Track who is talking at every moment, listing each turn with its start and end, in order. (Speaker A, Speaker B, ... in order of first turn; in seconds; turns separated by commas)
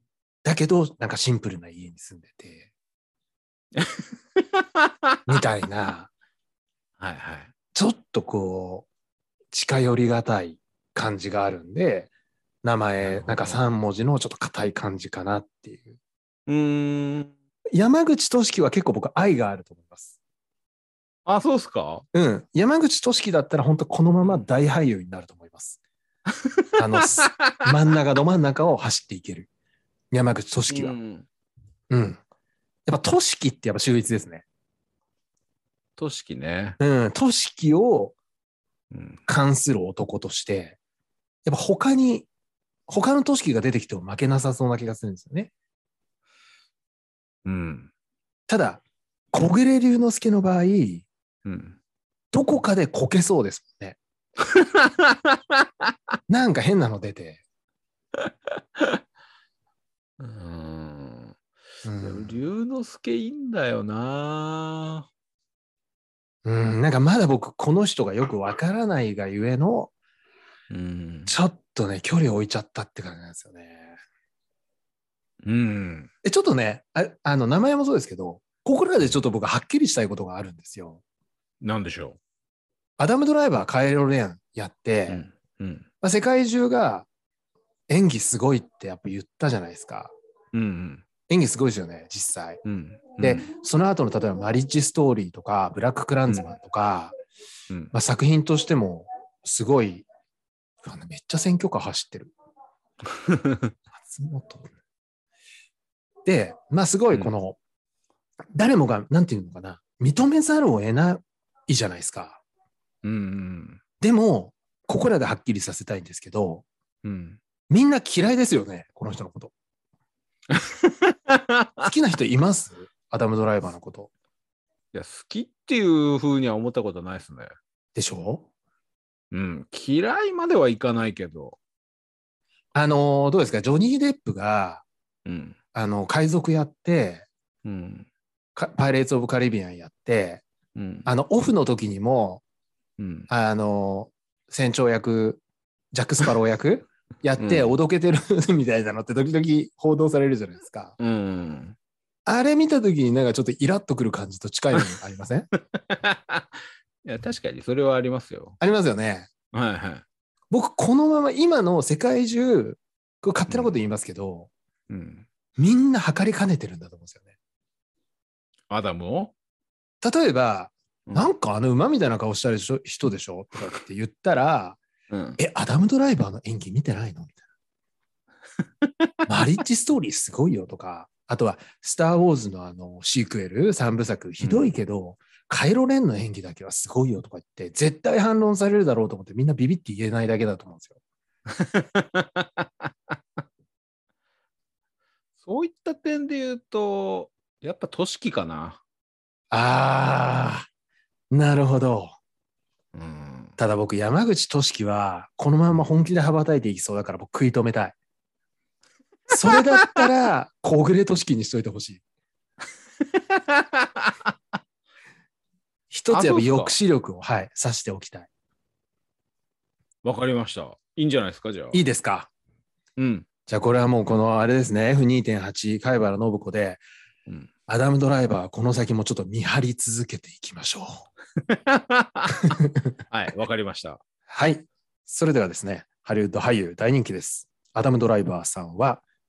Speaker A: 0.4-2.7, Speaker B: 3.8-5.4, Speaker A: 5.3-6.1, Speaker B: 7.0-7.5, Speaker A: 7.7-8.9, Speaker A: 9.5-12.1, Speaker A: 12.6-15.9, Speaker B: 13.0-13.6, Speaker B: 16.5-17.3, Speaker A: 17.7-20.1, Speaker B: 21.2-22.0, Speaker A: 22.1-25.8, Speaker A: 26.8-29.5, Speaker B: 27.2-27.6, Speaker A: 30.1-30.9, Speaker B: 30.7-31.3, Speaker A: 31.9-32.2, Speaker A: 32.9-34.4, Speaker B: 36.0-36.8, Speaker A: 36.8-38.1, Speaker B: 38.9-39.2, Speaker A: 39.3-40.8, Speaker A: 41.5-42.3, Speaker A: 42.9-45.5, Speaker B: 47.4-47.9, Speaker A: 48.5-48.8, Speaker A: 49.3-51.1, Speaker B: 51.4-51.8, Speaker A: 52.3-54.0, Speaker B: 54.5-55.4, Speaker A: 56.3-57.4, Speaker B: 58.3-59.0, Speaker B: 60.2-61.3, Speaker A: 61.8-62.4, Speaker B: 62.0-65.1, Speaker A: 66.4-69.9, Speaker B: 70.7-71.3, Speaker A: 71.2-73.9, Speaker B: 75.4-76.1, Speaker A: 76.2-81.0, Speaker B: 81.6-82.2, Speaker A: 83.0-85.2, Speaker B: 85.1-85.8, Speaker A: 86.0-87.1, Speaker A: 87.9-90.1, Speaker B: 90.5-91.0, Speaker A: 91.3-92.6, Speaker B: 92.6-93.5, Speaker A: 93.2-97.1, Speaker A: 97.9-100.0, Speaker A: 100.8-102.3, Speaker B: 103.3-103.7, Speaker A: 103.9-104.7, Speaker A: 106.2-107.6, Speaker A: 108.5-112.4, Speaker B: 113.0-113.8, Speaker A: 114.0-116.6, Speaker B: 117.0-117.4, Speaker A: 117.7-119.5, Speaker B: 120.5-121.9, Speaker A: 121.8-124.1, Speaker B: 124.9-127.5, Speaker A: 127.9-128.5, Speaker B: 129.3-131.6, Speaker A: 132.7-134.8, Speaker B: 135.2-135.6, Speaker A: 135.7-137.2, Speaker B: 137.6-138.1, Speaker A: 138.6-140.4, Speaker B: 140.7-141.1, Speaker A: 141.1-142.4, Speaker B: 143.0-143.3, Speaker A: 143.3-145.4, Speaker A: 145.9-150.9, Speaker B: 147.4-147.8, Speaker B: 151.0-151.8, Speaker A: 152.2-155.5, Speaker B: 155.8-158.6, Speaker A: 158.6-159.3, Speaker B: 159.5-160.0, Speaker A: 160.5-164.5, Speaker B: 163.5-163.7, Speaker B: 164.9-165.3, Speaker A: 165.6-167.2, Speaker B: 168.7-169.3, Speaker A: 170.0-174.8, Speaker B: 175.1-175.4, Speaker A: 175.4-177.4, Speaker A: 179.3-190.9, Speaker B: 184.4-184.7, Speaker B: 191.6-192.9, Speaker B: 195.4-198.8, Speaker A: 199.5-200.7, Speaker A: 201.3-202.1, Speaker B: 202.9-203.6, Speaker A: 203.6-207.9, Speaker A: 209.3-212.0, Speaker B: 209.5-209.9, Speaker B: 213.1-214.1, Speaker A: 215.9-218.3, Speaker B: 216.1-216.8, Speaker B: 220.0-221.8, Speaker A: 221.7-222.3, Speaker B: 223.0-223.2, Speaker A: 223.5-226.8, Speaker A: 227.7-231.1, Speaker B: 231.5-232.6, Speaker B: 233.1-234.0, Speaker A: 234.3-239.0